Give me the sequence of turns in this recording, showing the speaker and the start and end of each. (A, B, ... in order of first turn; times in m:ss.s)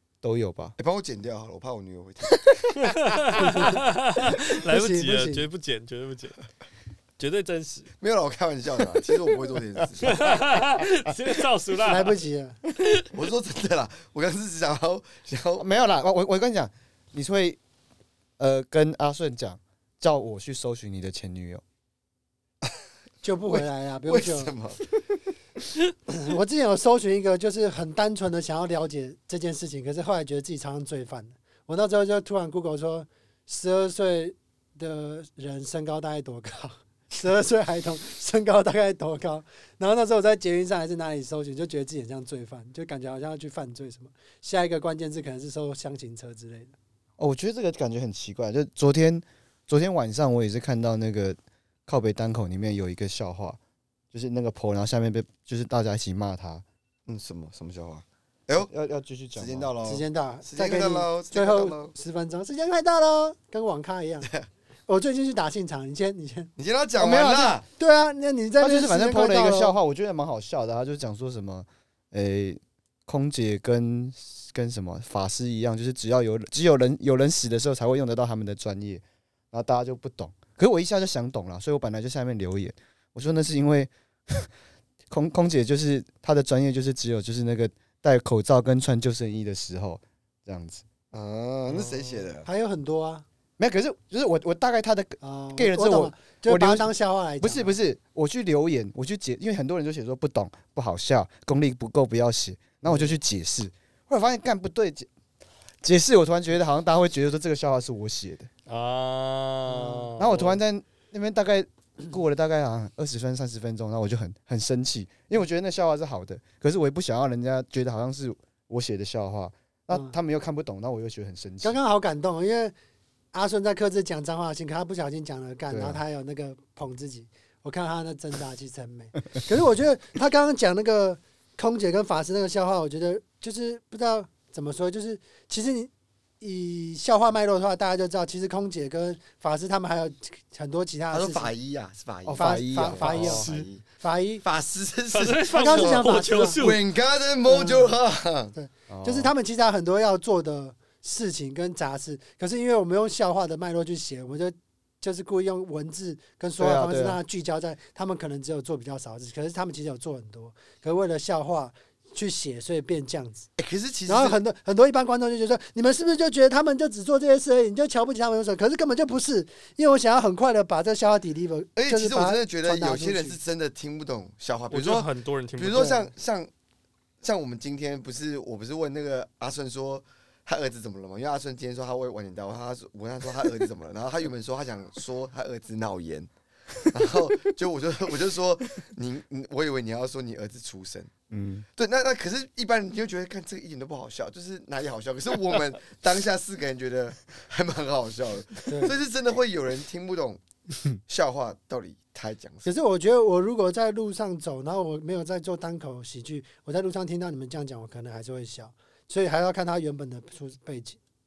0:00.2-0:00.8 A
0:00.8-0:03.6 B
0:02.8-0:06.4 C
0:03.4-0:03.8 D
0:04.4-0:05.5 D
0:07.2-0:07.9 C
0:08.0-0:10.3 B
0:10.0-0:12.2 C
0:11.8-0:12.6 D
0:12.8-0:13.0 C
0:13.1-0:15.7 B
0:15.6-0:17.6 A
0:18.4-0:21.6 A
0:23.2-0:24.5 D
0:24.1-0:24.8 B
0:26.1-0:46.8 D
0:47.2-0:53.6 A
0:54.1-0:56.6 A
0:57.1-0:58.7 B
0:58.6-0:59.7 A
0:59.4-1:01.9 B
0:59.8-1:04.3 D
1:04.9-1:06.5 D
1:06.6-1:07.6 B
1:07.0-1:07.6 A
1:07.6-1:09.8 D
1:08.6-1:24.5 A
1:25.1-1:30.8 A
1:31.1-1:32.5 B
1:32.4-1:33.2 D
1:33.6-1:36.9 A
1:35.2-1:37.8 D
1:37.4-1:45.1 A
1:45.8-1:48.5 A
1:48.7-1:50.6 C
1:49.7-1:50.1 D
1:50.2-2:01.8 A
2:01.6-2:02.8 D
2:03.3-2:21.5 D
2:05.7-2:06.0 A
2:21.1-2:23.8 B
2:22.3-2:23.5 A
2:22.4-2:24.4 D
2:24.4-2:28.5 B
2:25.1-2:26.8 C
2:25.5-2:26.6 D
2:27.5-2:27.9 D
2:28.5-2:43.5 D
2:28.9-2:29.3 A
2:36.6-2:37.2 A
2:43.6-2:44.4 B
2:44.1-2:53.4 D
2:51.8-2:56.5 B
2:54.7-2:56.0 C
2:55.7-2:56.0 D
2:57.2-3:06.3 B
3:06.9-3:11.1 B
3:11.3-3:11.6 A
3:11.8-3:20.4 B
3:18.7-3:18.9 D
3:21.1-3:22.7 B
3:22.6-3:31.0 D